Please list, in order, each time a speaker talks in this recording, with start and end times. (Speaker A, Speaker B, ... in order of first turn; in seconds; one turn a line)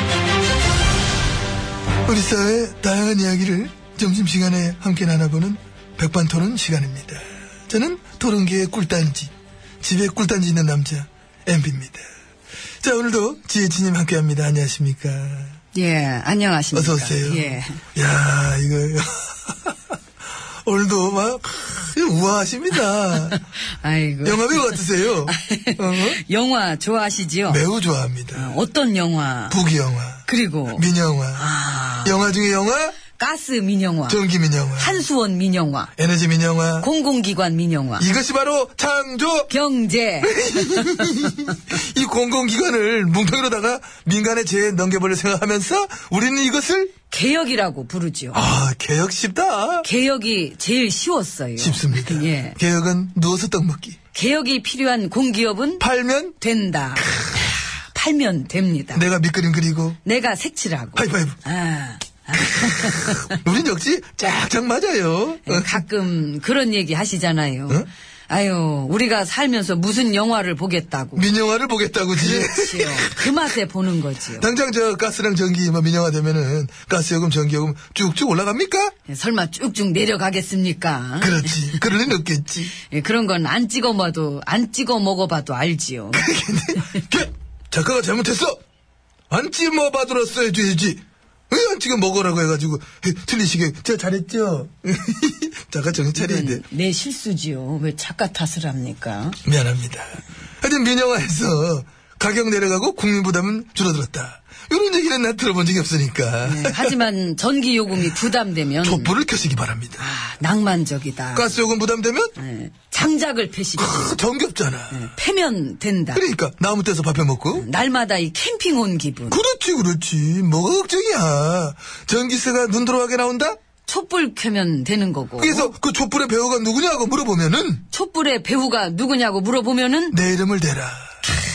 Speaker A: 2.0-12.0
Speaker A: 12.8-15.6
Speaker B: 15.7-17.8
Speaker A: 16.7-19.8
Speaker A: 20.6-23.4
Speaker B: 23.4-27.6
Speaker A: 24.2-26.2
Speaker A: 27.5-28.6
Speaker B: 28.3-29.6
Speaker A: 29.5-31.5
Speaker B: 30.2-32.2
Speaker A: 32.0-33.0
Speaker B: 33.1-34.2
Speaker A: 34.1-35.0
Speaker B: 34.8-35.9
Speaker A: 36.0-36.9
Speaker B: 36.8-38.1
Speaker A: 38.0-39.5
Speaker B: 39.5-41.1
Speaker A: 40.2-46.9
Speaker B: 47.1-48.4
Speaker A: 48.3-49.9
Speaker B: 49.8-52.6
Speaker A: 51.6-54.0
Speaker B: 54.1-55.9
Speaker A: 55.8-56.4
Speaker B: 56.4-59.0
Speaker A: 58.9-60.0
Speaker B: 60.0-63.4
Speaker A: 61.0-61.4
Speaker A: 62.6-65.8
Speaker B: 65.5-71.3
Speaker A: 71.2-73.4
Speaker B: 72.1-74.5
Speaker A: 74.3-78.9
Speaker B: 79.1-81.8
Speaker A: 81.2-82.7
Speaker B: 82.8-86.3
Speaker A: 86.1-88.6
Speaker A: 89.3-96.6
Speaker B: 96.1-99.4
Speaker A: 99.4-107.0
Speaker B: 106.4-109.1
Speaker A: 107.9-108.2
Speaker A: 108.8-110.0
Speaker B: 110.0-111.6
Speaker A: 111.3-112.3
Speaker B: 112.4-114.2
Speaker A: 113.8-115.1
Speaker B: 114.9-116.2
Speaker A: 116.1-117.7
Speaker B: 117.5-119.4
Speaker A: 119.3-123.6
Speaker B: 123.8-125.7
Speaker A: 125.4-127.8
Speaker B: 127.9-130.2
Speaker A: 130.1-131.1